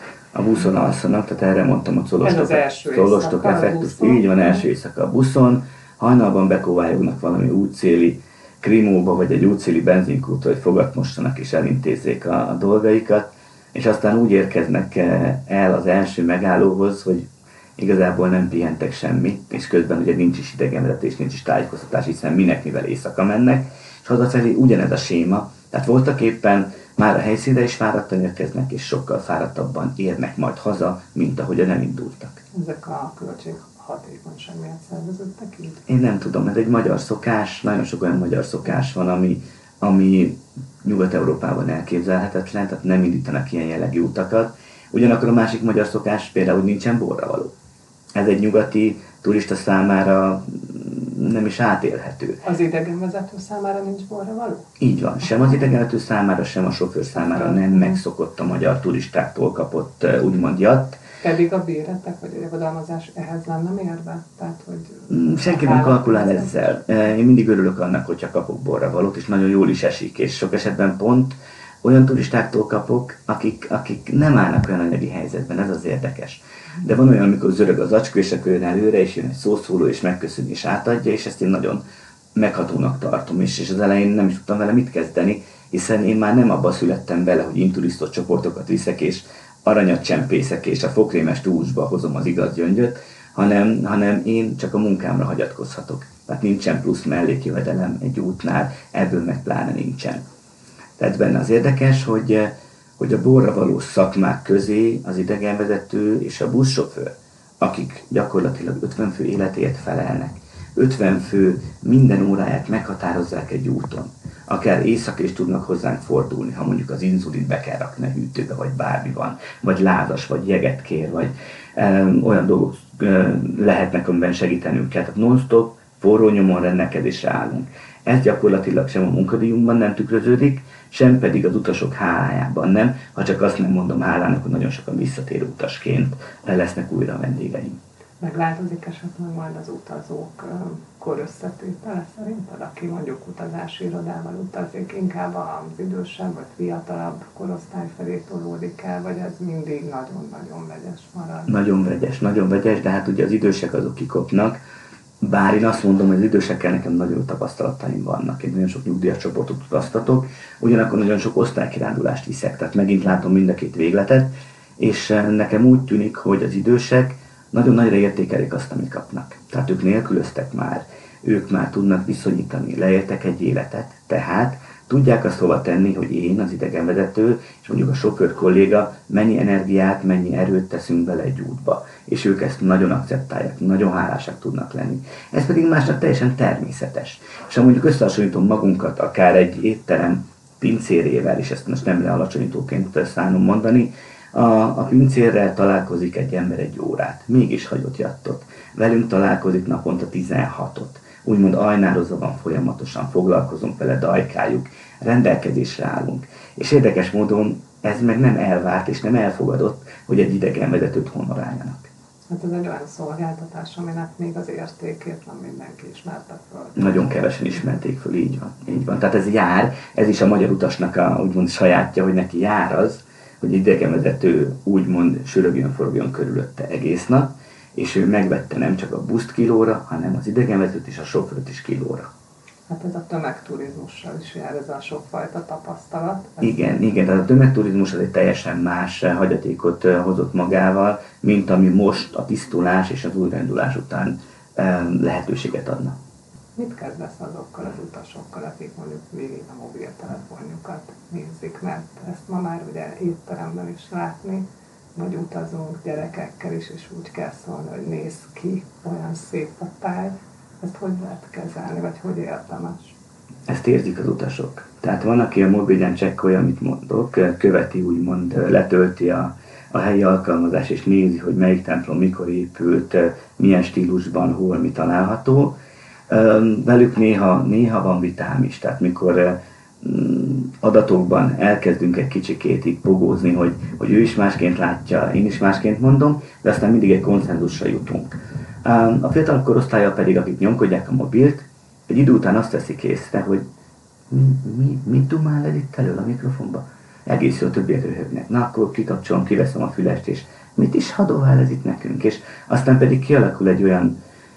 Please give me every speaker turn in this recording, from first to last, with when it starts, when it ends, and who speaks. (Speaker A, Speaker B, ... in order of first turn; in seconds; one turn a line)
Speaker A: 0.3-32.4
Speaker B: 2.2-4.6
Speaker B: 32.5-35.8
Speaker A: 35.9-47.5
Speaker A: 48.1-52.4
Speaker B: 52.4-54.7
Speaker A: 54.8-61.0
Speaker B: 57.3-57.9
Speaker B: 61.2-66.8
Speaker A: 65.1-81.8
Speaker A: 82.3-100.2
Speaker A: 101.0-137.8
Speaker B: 138.2-151.5
Speaker A: 151.5-154.6
Speaker A: 155.2-211.9
Speaker B: 212.3-217.3
Speaker A: 216.8-232.1
Speaker B: 232.7-237.0
Speaker A: 236.4-245.9
Speaker B: 246.6-254.4
Speaker B: 254.9-262.9
Speaker A: 263.5-275.6
Speaker A: 276.1-293.4
Speaker A: 294.1-304.0